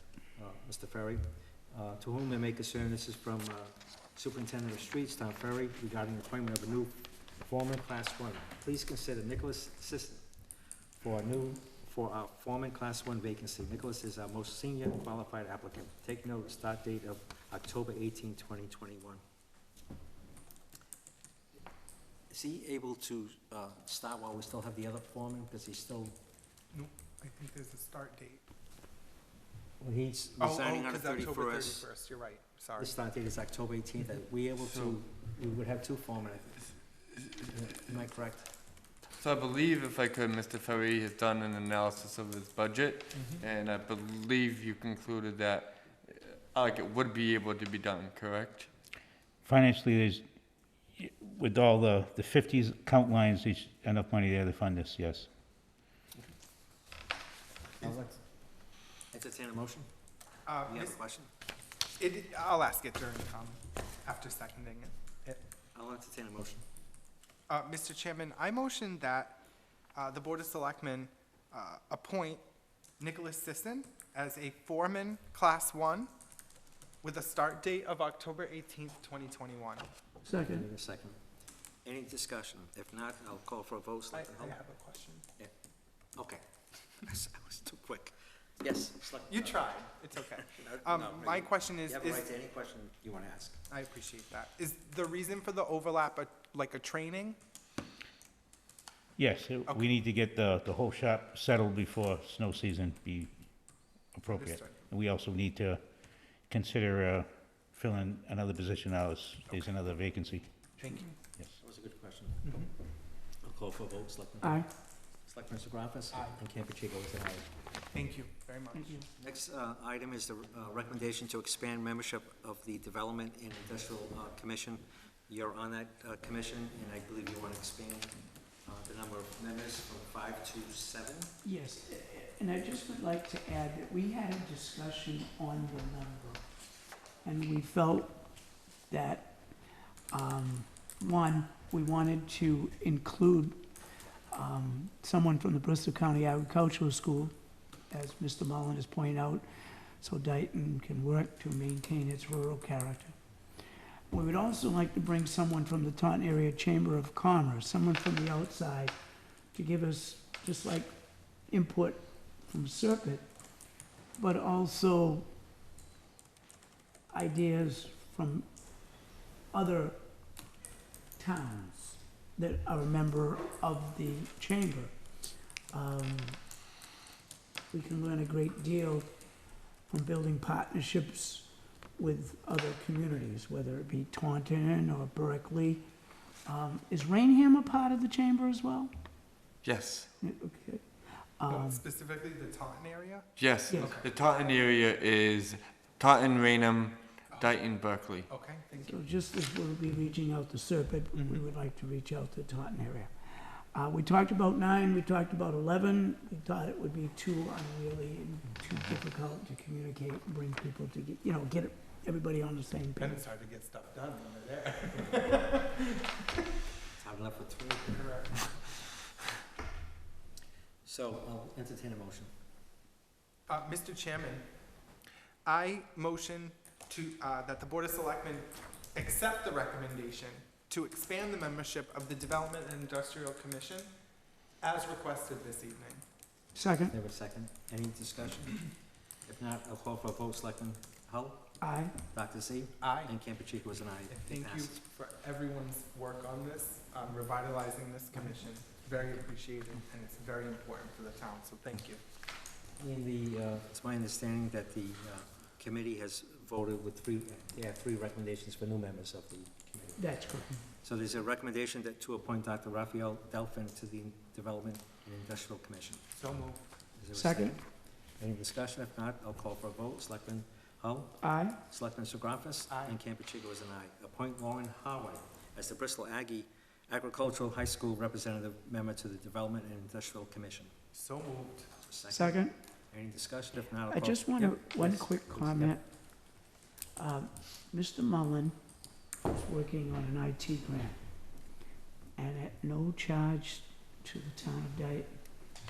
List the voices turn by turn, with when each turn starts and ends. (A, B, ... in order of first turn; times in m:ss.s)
0:00.4-0:10.3 A
0:11.0-0:19.2 A
0:22.3-0:26.2 A
0:26.7-0:28.4 B
0:29.8-0:31.9 A
0:30.4-0:32.9 B
0:32.8-0:36.7 A
0:34.6-0:35.0 C
0:37.4-0:38.5 A
0:39.2-0:48.7 C
0:43.1-0:43.4 B
0:49.4-0:50.2 D
0:51.0-0:55.3 D
0:57.8-0:58.2 A
0:59.1-0:59.9 A
1:00.5-1:01.0 B
1:00.7-1:01.3 A
1:02.0-1:05.0 B
1:05.2-1:06.6 A
1:07.5-1:09.4 B
1:09.9-1:12.4 B
1:13.0-1:16.1 B
1:17.0-1:19.9 B
1:20.2-1:20.7 E
1:20.4-1:21.2 A
1:21.8-1:24.6 A
1:24.1-1:25.2 B
1:26.2-1:26.4 A
1:27.0-1:29.8 A
1:29.3-1:32.3 B
1:30.5-1:33.6 A
1:33.7-1:37.4 B
1:39.2-1:43.3 D
1:44.1-1:45.8 D
1:44.3-1:44.7 B
1:46.4-1:50.5 D
1:50.8-1:51.1 B
1:51.6-1:52.7 A
1:53.4-1:54.7 A
1:54.4-1:54.7 E
1:55.2-1:57.5 A
1:57.9-1:59.0 B
1:58.7-1:59.1 E
1:59.2-2:11.3 A
2:11.4-2:16.4 E
2:17.2-2:18.2 E
2:18.9-2:19.4 E
2:20.1-2:23.6 E
2:24.3-2:27.3 E
2:27.9-2:29.4 E
2:30.0-2:33.2 E
2:34.1-2:39.0 E
2:39.5-2:43.3 E
2:44.2-2:45.3 E
2:47.1-2:50.0 E
2:51.2-2:54.9 E
2:55.7-2:56.4 E
2:57.7-2:59.1 E
2:59.9-3:05.9 E
3:06.4-3:08.9 E
3:09.6-3:10.1 C
3:10.2-3:10.9 E
3:11.4-3:11.8 E
3:11.5-3:14.2 B
3:13.4-3:18.3 C
3:13.6-3:14.0 E
3:17.3-3:17.6 B
3:18.3-3:19.0 B
3:18.8-3:33.2 E
3:21.1-3:21.4 B
3:33.0-3:36.0 B
3:37.0-3:38.2 A
3:37.9-3:38.5 B
3:40.8-3:42.3 A
3:43.5-3:44.5 B
3:45.5-3:53.9 B
3:54.6-3:56.0 B
3:56.6-3:57.0 E
3:56.9-3:58.6 A
3:59.2-4:04.8 A
4:01.6-4:01.9 E
4:02.8-4:03.1 B
4:04.1-4:12.0 B
4:12.8-4:26.1 A
4:20.0-4:20.6 E
4:26.2-4:26.6 B
4:27.0-4:40.7 A
4:27.1-4:27.6 E
4:31.2-4:31.6 E
4:32.7-4:33.0 B
4:40.9-4:41.7 B
4:41.8-4:45.8 A
4:42.1-4:42.5 E
4:43.8-4:45.8 E
4:47.0-4:48.6 E
4:49.4-4:51.0 E
4:52.2-4:55.1 E